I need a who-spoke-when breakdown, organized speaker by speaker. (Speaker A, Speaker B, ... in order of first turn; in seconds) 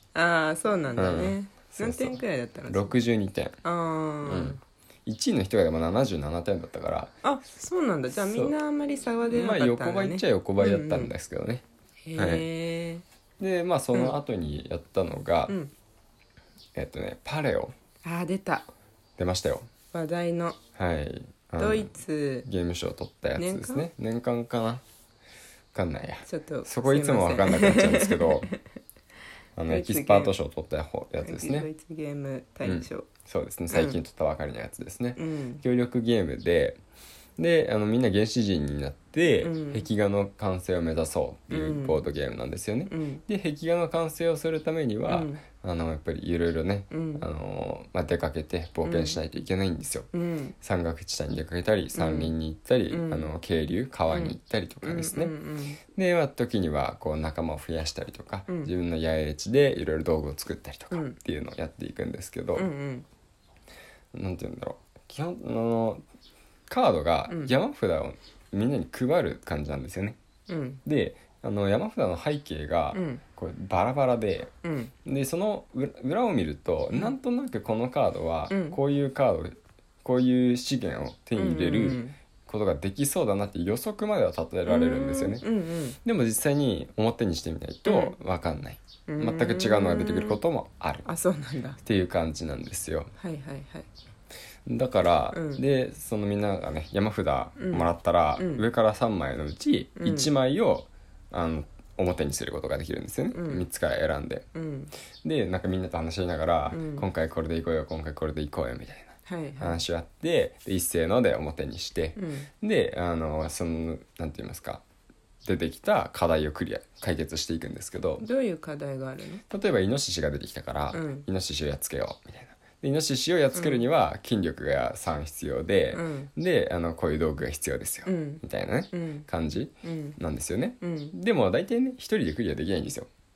Speaker A: 0.1-2.9, 3.6-4.6, 7.2-11.1, 12.1-13.0, 13.9-14.2, 18.0-18.7, 19.9-20.6, 21.6-22.4, 23.4-23.9, 26.2-28.6, 29.7-30.4, 31.2-33.1, 33.7-34.0, 35.1-35.6, 39.4-39.9, 41.5-42.0, 42.9-43.2, 45.1-45.4, 46.9-47.2, 48.8-49.2, 50.1-50.5, 51.9-52.3, 52.9-53.3, 54.1-55.8, 60.9-61.1, 62.5-63.0, 70.5-70.8, 72.9-73.2, 74.6-74.9, 78.5-78.8, 81.3-82.2, 84.7-86.0, 87.8-88.1, 89.1-90.4, 91.0-91.8, 93.2-93.9, 95.3-95.6, 97.6-98.6, 100.0-100.3, 103.3-103.7, 104.5-104.9, 106.7-107.0, 109.2-109.8, 112.2-112.5, 118.2-119.4, 120.9-121.3, 123.5-123.8, 125.9-126.3, 128.1-129.3, 129.8-130.2, 130.8-131.1
Speaker B: 0.9-3.6, 4.2-7.1, 8.1-8.6, 9.2-11.6, 12.2-12.5, 13.4-15.6, 16.7-17.7, 19.2-19.7, 20.8-24.8, 25.7-28.5, 29.6-31.7, 32.6-36.8, 37.4-50.1, 50.6-55.3, 55.9-62.7, 64.1-66.0, 66.7-70.2, 70.8-74.5, 75.0-85.4, 86.0-91.0, 91.8-93.1, 94.7-104.5, 105.2-114.8, 115.4-118.2, 119.5-133.1